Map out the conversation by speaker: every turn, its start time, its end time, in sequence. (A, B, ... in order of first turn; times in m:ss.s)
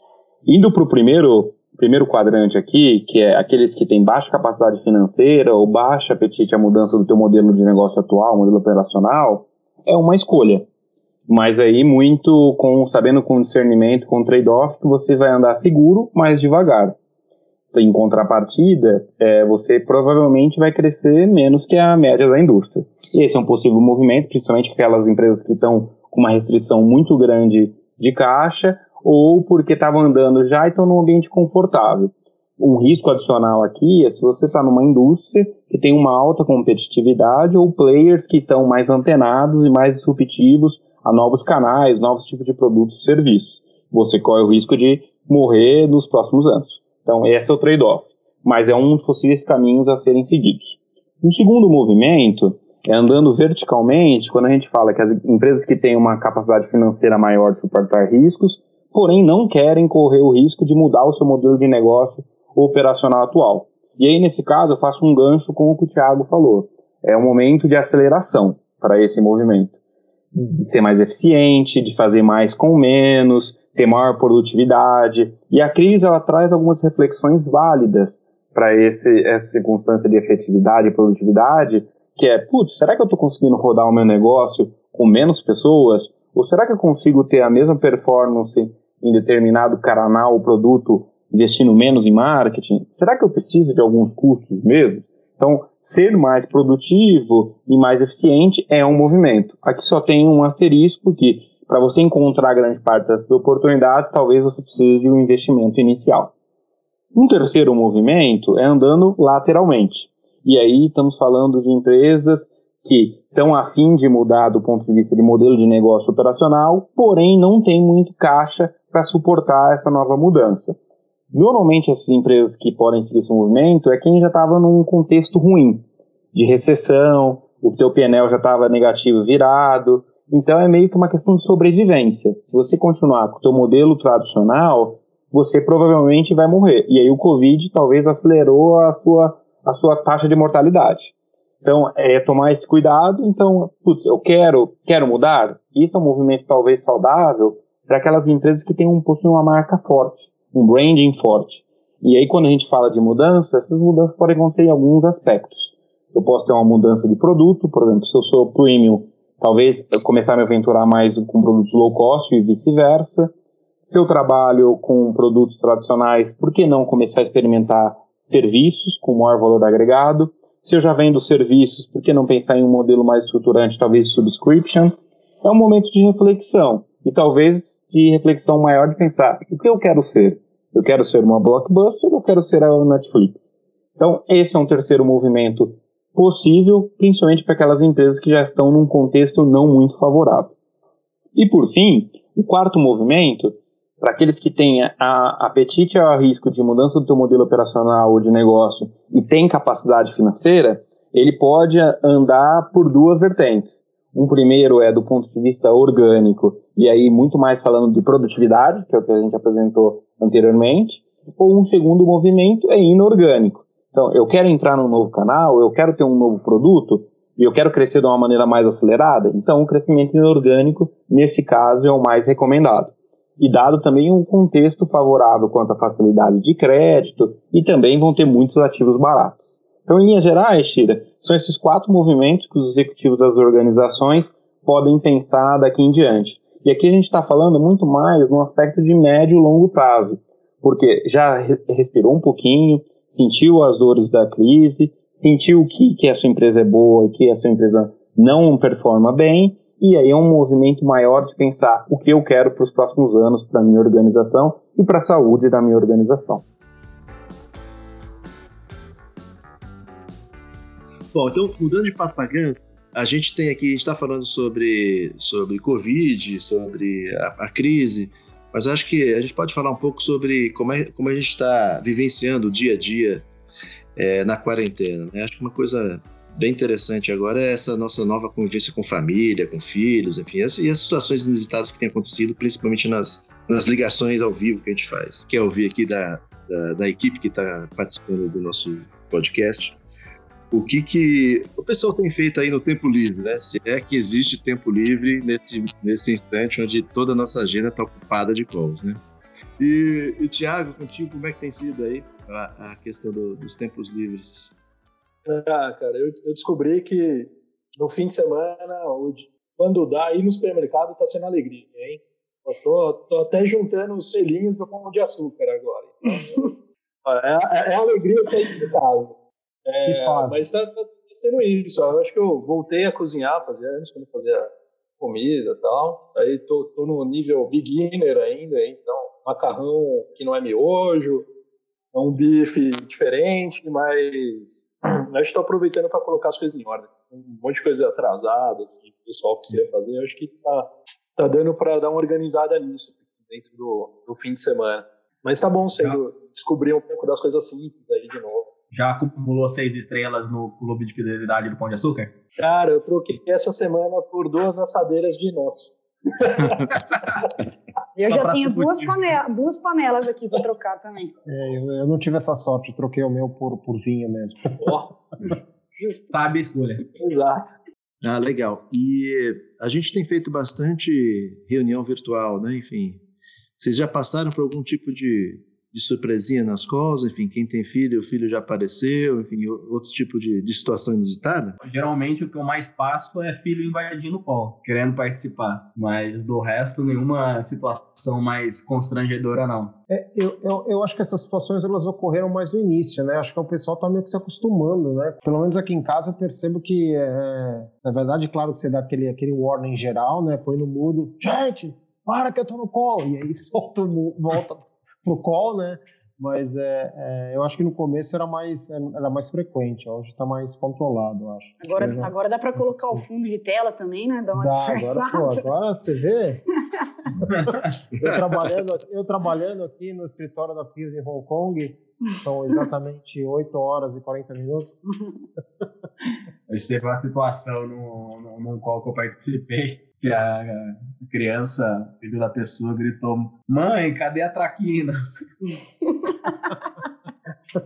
0:00.4-0:10.7 A
0:11.3-0:17.0 A
0:17.7-1:09.8 A
1:10.3-1:46.3 A
1:47.1-2:00.8 A
2:01.3-2:21.1 A
2:21.6-3:03.4 A
3:04.0-3:10.5 A
3:11.4-4:16.4 A
4:21.1-4:33.2 B
4:34.0-4:49.8 B
4:50.5-4:59.0 B
4:59.6-5:04.5 B
5:05.2-5:16.5 C
5:17.0-5:19.1 C
5:19.6-5:31.3 C
5:19.9-5:20.4 D
5:31.9-5:48.5 C
5:48.7-5:52.1 E
5:52.4-5:56.7 C
5:58.0-6:01.2 F
5:58.0-5:59.0 E
6:01.3-6:04.4 D
6:04.6-6:04.9 C
6:05.8-6:06.1 F
6:06.1-6:06.8 E
6:07.0-6:07.5 C
6:08.0-6:13.0 B
6:13.6-6:21.6 B
6:21.6-6:29.7 E
6:29.9-6:52.1 D
6:51.6-6:55.4 F
6:54.3-6:56.4 D
6:57.2-6:57.8 E
6:58.0-7:04.8 D
7:06.5-7:15.2 E
7:16.0-7:16.4 F